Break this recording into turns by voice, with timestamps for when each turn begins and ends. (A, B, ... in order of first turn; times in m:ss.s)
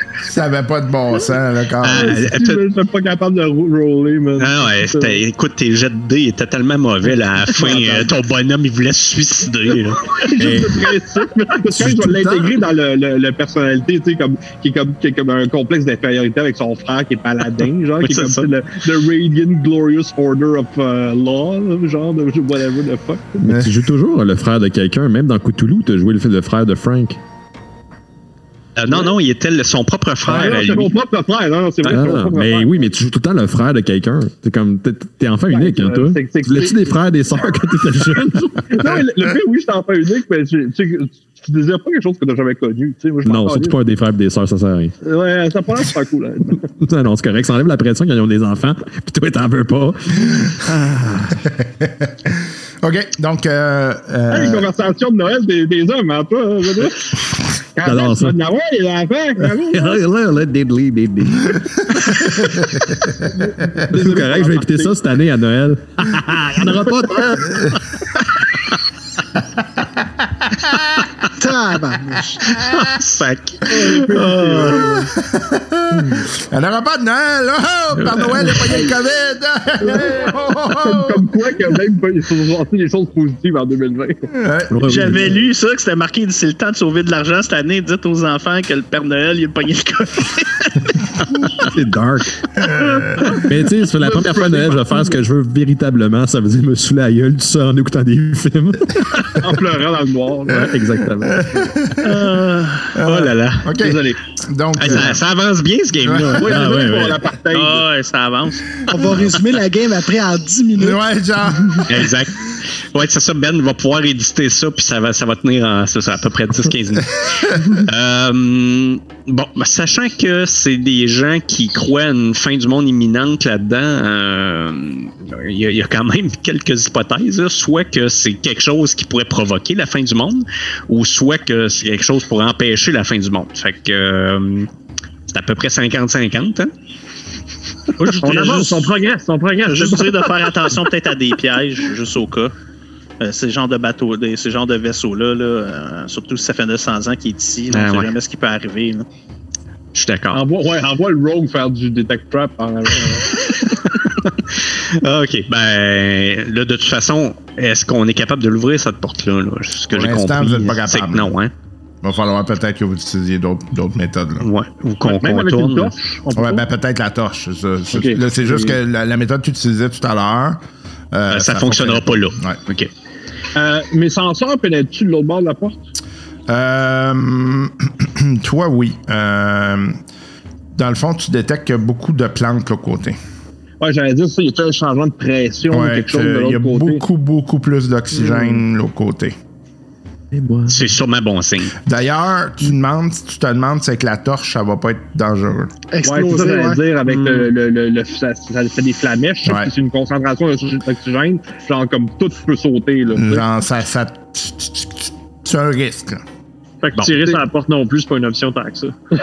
0:00.2-0:02.2 A
0:01.8-0:02.6 B
0:01.9-0:05.2 C
0:04.4-0:10.6 B
0:07.5-0:08.1 C
0:10.0-0:23.4 C
0:10.4-0:10.8 D
0:11.8-0:12.6 D
0:17.6-0:18.5 B
0:23.4-0:27.2 D
0:23.5-0:23.7 A
0:28.8-0:30.9 B
0:28.9-0:29.1 C
0:30.2-0:32.9 C
0:31.9-0:38.6 D
0:35.5-0:37.0 C
0:38.2-0:43.8 C
0:43.2-0:44.9 D
0:45.0-0:46.6 C
0:46.8-0:51.3 D
0:50.3-0:50.6 A
0:51.4-0:54.7 A
0:54.3-1:00.0 C
0:57.8-0:58.4 D
0:59.7-1:02.4 D
1:01.4-1:03.2 A
1:03.3-1:05.0 C
1:03.8-1:07.7 D
1:06.7-1:07.2 C
1:07.4-1:07.8 A
1:09.6-1:11.0 A
1:11.4-1:12.4 E
1:12.4-1:14.9 B
1:12.5-1:12.8 A
1:13.7-1:15.1 C
1:14.7-1:21.5 A
1:18.0-1:18.8 B
1:19.9-1:24.3 C
1:24.3-1:25.2 A
1:24.7-1:25.4 D
1:24.9-1:31.1 F
1:31.7-1:32.3 D
1:32.6-1:33.4 A
1:32.7-1:33.1 F
1:33.4-1:39.2 D
1:33.9-1:35.2 C
1:39.4-1:40.8 C
1:40.5-1:41.4 D
1:41.2-1:42.4 A
1:42.0-1:42.9 F
1:42.9-1:45.2 A
1:43.0-1:43.8 B
1:43.8-1:44.2 C
1:44.8-1:47.2 B
1:46.0-1:46.5 A
1:46.3-1:47.9 C
1:46.5-1:47.0 D
1:47.5-1:49.2 F
1:48.9-1:51.0 E
1:50.8-1:52.1 A
1:51.6-1:51.8 E
1:51.9-2:14.7 B
2:15.3-2:16.7 B
2:18.0-2:18.4 B
2:18.0-2:20.5 C
2:18.1-2:18.8 F
2:19.7-2:22.5 F
2:23.2-2:29.1 F
2:27.7-2:28.1 B
2:29.9-2:30.4 B
2:30.3-2:33.5 C
2:33.5-2:41.5 B
2:39.9-2:41.3 A
2:42.0-2:44.5 A
2:44.4-2:45.9 B
2:45.0-2:46.6 C
2:46.4-2:52.6 A
2:47.9-2:48.8 C
2:51.3-2:52.9 B
2:53.6-2:55.8 C
2:56.5-3:00.0 A
3:00.7-3:03.2 A
3:03.8-3:07.0 C
3:05.7-3:09.4 A
3:08.2-3:08.5 C
3:10.3-3:10.9 D
3:10.7-3:11.8 B
3:11.8-3:15.7 A
3:15.9-3:16.8 E
3:16.0-3:23.5 C
3:17.1-3:17.5 G
3:19.4-3:19.7 A
3:23.1-3:26.2 A
3:26.8-3:29.0 G
3:26.9-3:27.2 B